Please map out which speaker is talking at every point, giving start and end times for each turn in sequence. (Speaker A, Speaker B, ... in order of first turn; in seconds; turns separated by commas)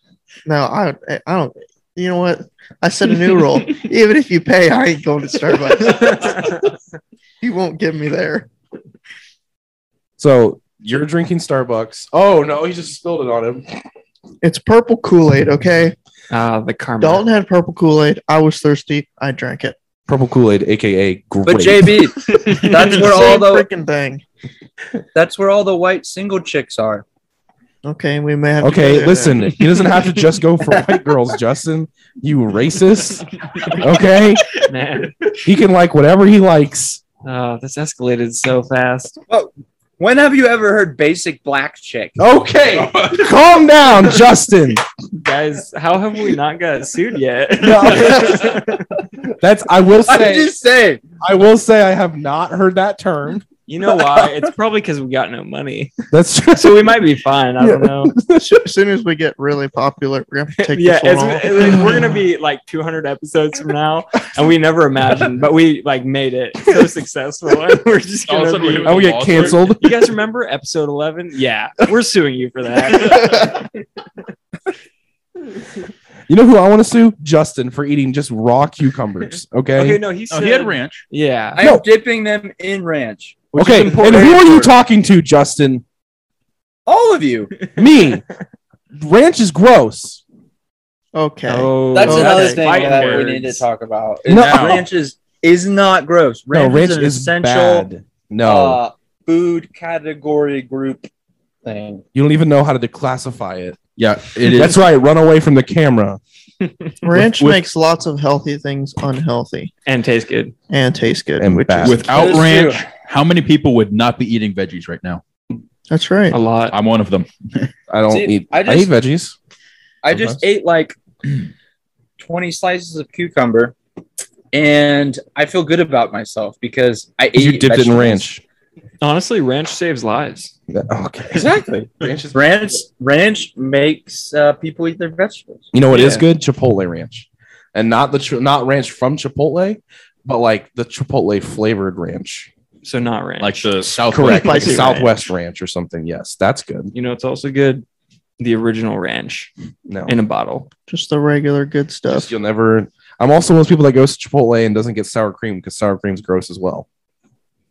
Speaker A: 0.4-6.6, Speaker A: 7.4-8.5, Speaker B: 10.2-13.7, Speaker A: 14.4-15.9, Speaker C: 16.3-17.2, Speaker A: 17.0-19.8, Speaker B: 20.1-22.3, Speaker D: 21.4-23.7, Speaker C: 22.3-22.8, Speaker A: 22.8-24.2, Speaker D: 25.1-27.1, Speaker A: 27.8-29.7, Speaker B: 28.6-34.6, Speaker C: 34.6-35.3, Speaker B: 35.4-37.0, Speaker C: 37.2-39.2, Speaker D: 39.3-42.1, Speaker B: 42.2-44.9, Speaker E: 42.8-43.3, Speaker C: 45.2-49.0, Speaker B: 47.6-50.6, Speaker D: 50.1-51.0, Speaker B: 51.2-53.5, Speaker C: 53.7-55.9, Speaker B: 56.1-57.0, Speaker C: 56.5-58.1, Speaker B: 57.6-58.6, Speaker A: 58.4-61.8, Speaker C: 60.6-73.6, Speaker E: 68.3-69.8, Speaker B: 68.8-70.1, Speaker B: 73.0-73.3, Speaker B: 76.3-80.0, Speaker C: 79.7-81.6, Speaker E: 80.3-81.0, Speaker D: 81.6-84.7, Speaker B: 81.6-81.8, Speaker C: 83.5-84.4, Speaker B: 83.5-85.8, Speaker D: 86.9-87.7, Speaker B: 87.8-88.2, Speaker B: 89.0-90.2, Speaker A: 91.1-92.7, Speaker C: 91.5-93.6, Speaker D: 91.9-97.9, Speaker E: 92.7-93.3, Speaker B: 94.3-94.9, Speaker E: 94.3-94.9, Speaker B: 96.5-98.8, Speaker D: 98.4-101.1, Speaker D: 101.6-102.0, Speaker B: 102.1-103.8, Speaker E: 104.0-104.8, Speaker B: 104.4-106.2, Speaker A: 107.0-109.7, Speaker C: 109.9-110.5, Speaker A: 110.7-112.4, Speaker B: 111.4-112.1, Speaker E: 111.8-115.2, Speaker D: 112.1-112.9, Speaker A: 115.9-116.4, Speaker C: 116.3-116.8, Speaker E: 116.7-117.7, Speaker B: 117.9-119.4, Speaker D: 118.1-118.9, Speaker D: 120.0-121.0, Speaker B: 120.1-120.4, Speaker D: 122.2-123.8, Speaker D: 124.5-128.3, Speaker B: 127.3-128.4, Speaker C: 129.0-130.5, Speaker B: 130.7-132.4, Speaker D: 132.3-135.7, Speaker B: 135.7-142.5, Speaker C: 135.9-136.3, Speaker C: 142.8-143.7, Speaker E: 143.4-144.9, Speaker B: 144.0-146.9, Speaker A: 144.2-145.2, Speaker C: 146.9-147.8, Speaker C: 148.4-149.5, Speaker B: 149.9-150.2, Speaker C: 150.1-150.7, Speaker A: 150.9-152.3, Speaker B: 152.1-156.9